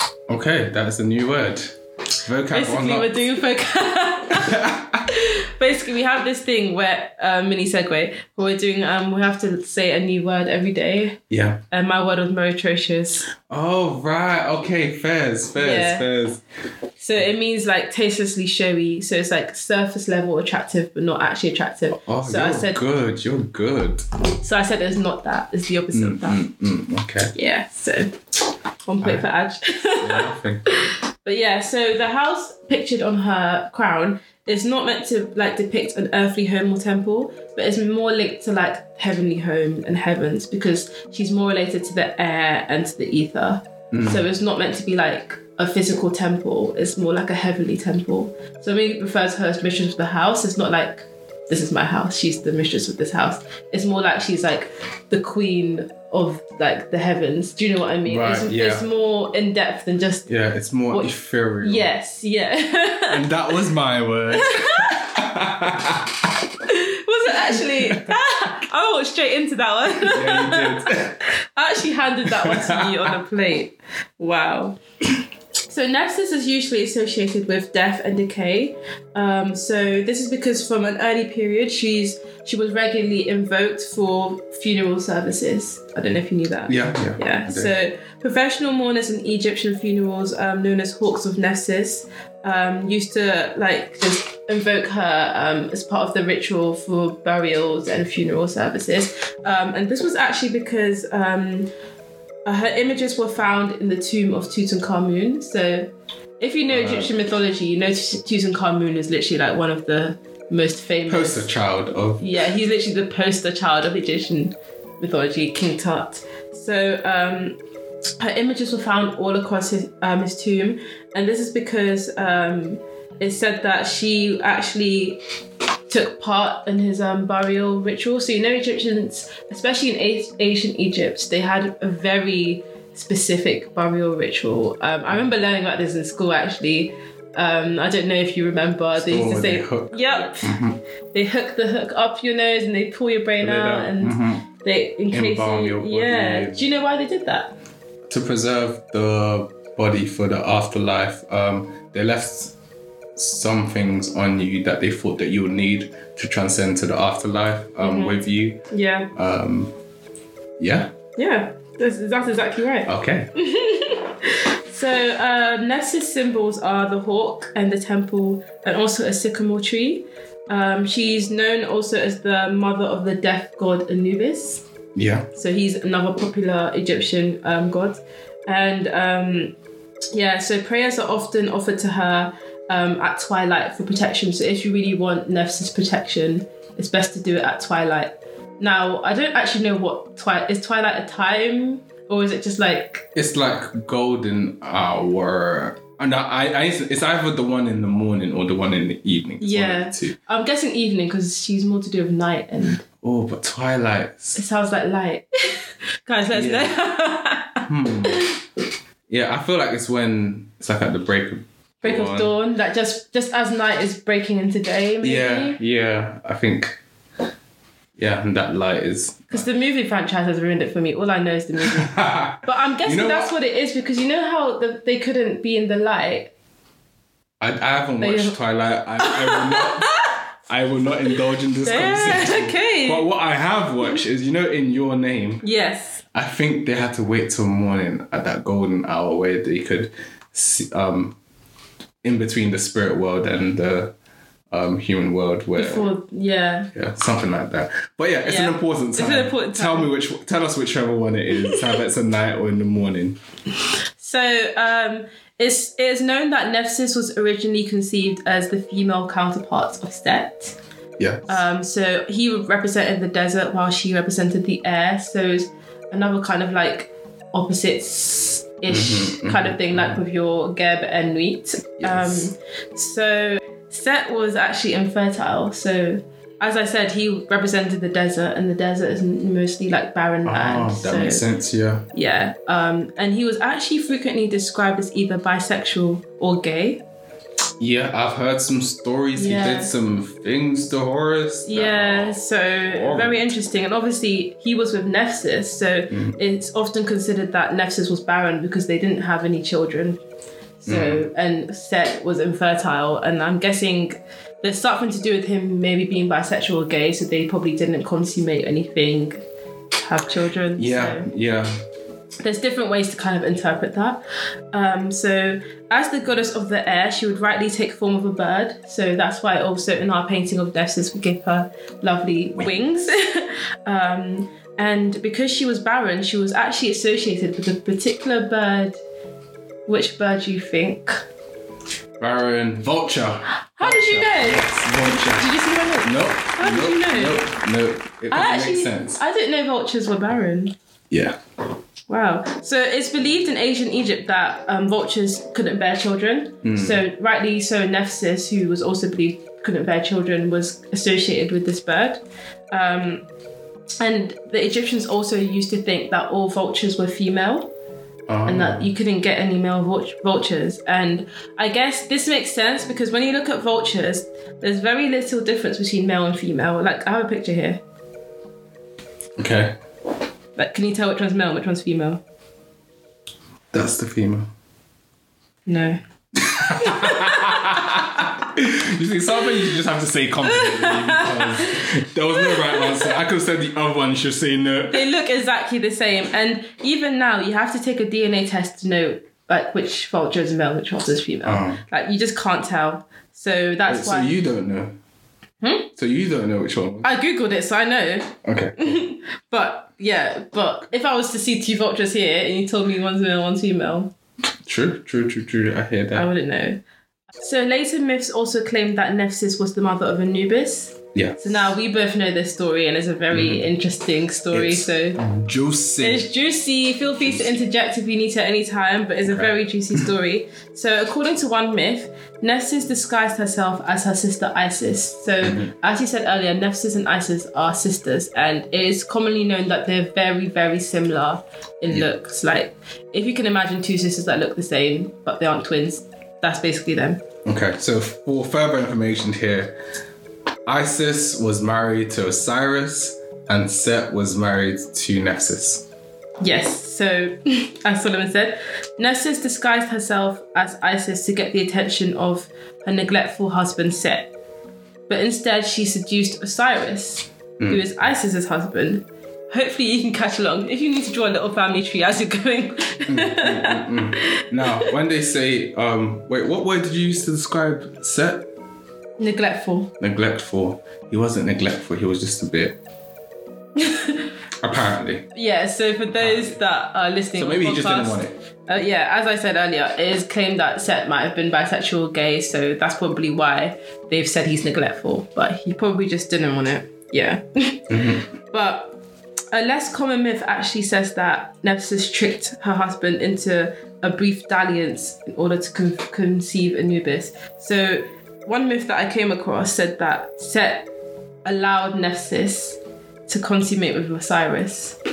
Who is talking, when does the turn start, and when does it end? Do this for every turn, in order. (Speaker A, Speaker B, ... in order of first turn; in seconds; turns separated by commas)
Speaker A: 0.3-3.3, Speaker B: 2.5-11.2, Speaker A: 4.3-5.1, Speaker A: 11.3-11.6, Speaker B: 11.7-13.3, Speaker A: 13.5-16.4, Speaker B: 15.6-16.1, Speaker B: 17.0-22.8, Speaker A: 21.9-24.1, Speaker B: 24.4-26.4, Speaker A: 25.9-27.3, Speaker B: 27.3-28.2, Speaker B: 28.9-60.3, Speaker A: 30.0-30.6, Speaker A: 43.9-44.2, Speaker A: 58.1-58.9, Speaker A: 60.3-61.9, Speaker B: 60.9-63.2, Speaker A: 63.1-66.3, Speaker B: 64.3-65.0, Speaker B: 66.7-71.0, Speaker A: 67.5-68.2, Speaker A: 70.1-71.2, Speaker B: 71.5-74.8, Speaker A: 72.2-73.1, Speaker B: 75.7-101.7, Speaker A: 86.7-87.8, Speaker B: 102.5-111.5, Speaker A: 106.7-107.1, Speaker A: 111.1-112.3, Speaker B: 112.2-117.6, Speaker B: 118.2-125.2, Speaker B: 125.9-140.6, Speaker A: 139.0-140.8, Speaker B: 141.1-147.6, Speaker A: 143.4-144.5, Speaker A: 145.1-146.7, Speaker A: 148.1-152.5, Speaker A: 153.2-158.6, Speaker B: 157.8-159.1, Speaker A: 159.2-159.8, Speaker A: 160.6-160.9, Speaker B: 161.2-174.6, Speaker A: 162.9-163.3, Speaker A: 174.9-175.3, Speaker B: 175.3-179.5, Speaker B: 180.1-193.1, Speaker A: 193.2-200.2, Speaker B: 199.4-202.8, Speaker A: 203.0-204.4, Speaker B: 204.4-208.3, Speaker A: 206.3-206.7, Speaker A: 207.7-208.2, Speaker A: 209.1-212.3, Speaker B: 211.8-215.6, Speaker A: 215.0-216.8, Speaker A: 218.0-219.5, Speaker B: 219.3-226.3, Speaker A: 221.8-223.3, Speaker A: 227.4-229.9, Speaker B: 228.0-228.4, Speaker B: 229.0-230.2, Speaker A: 230.5-235.4, Speaker B: 231.1-233.1, Speaker B: 235.4-236.0, Speaker A: 236.1-241.2, Speaker A: 242.0-243.9, Speaker A: 244.5-245.9, Speaker B: 245.6-246.7, Speaker A: 246.7-253.2, Speaker B: 248.2-249.9, Speaker B: 251.4-251.7, Speaker B: 254.0-260.6, Speaker A: 261.0-261.4, Speaker B: 261.3-281.2, Speaker A: 268.7-270.0, Speaker A: 271.8-272.3, Speaker A: 280.3-281.9, Speaker B: 281.9-286.8, Speaker A: 287.6-293.2, Speaker B: 289.2-289.7, Speaker B: 291.5-300.0, Speaker A: 295.9-296.2, Speaker B: 300.6-309.2, Speaker A: 300.7-301.1, Speaker B: 309.8-311.1, Speaker A: 310.6-311.6, Speaker B: 312.2-314.0, Speaker B: 314.5-328.8, Speaker B: 329.7-331.0, Speaker A: 332.0-339.0, Speaker B: 333.6-337.2, Speaker B: 338.1-340.5, Speaker A: 340.9-341.2, Speaker B: 341.9-353.1, Speaker A: 346.4-346.8, Speaker B: 353.8-357.5, Speaker A: 358.1-358.7, Speaker B: 358.3-367.6, Speaker A: 369.2-369.6, Speaker B: 370.4-372.0, Speaker A: 373.5-374.3, Speaker B: 375.5-375.8, Speaker A: 376.2-384.9, Speaker B: 376.4-377.6, Speaker B: 380.3-382.9, Speaker B: 384.7-394.1, Speaker A: 391.2-391.6, Speaker A: 393.7-394.8, Speaker B: 395.4-395.7, Speaker A: 395.8-396.9, Speaker B: 396.8-403.9, Speaker A: 398.2-398.8, Speaker A: 404.5-406.1, Speaker B: 405.9-406.6, Speaker B: 407.2-415.0, Speaker A: 410.9-411.5, Speaker A: 413.1-413.5, Speaker A: 414.3-416.1, Speaker B: 415.8-437.0, Speaker A: 417.0-417.4, Speaker A: 419.1-419.9, Speaker A: 425.2-425.5, Speaker A: 437.2-439.6, Speaker A: 440.5-445.7, Speaker B: 446.2-454.1, Speaker B: 454.9-464.7, Speaker A: 457.4-457.6, Speaker A: 462.9-468.3, Speaker B: 469.0-469.7, Speaker A: 469.8-472.6, Speaker B: 473.6-474.1, Speaker A: 474.4-475.1, Speaker B: 475.1-488.8, Speaker A: 475.9-476.4, Speaker A: 477.2-478.1, Speaker A: 487.7-488.1, Speaker B: 489.3-500.7, Speaker B: 501.2-504.8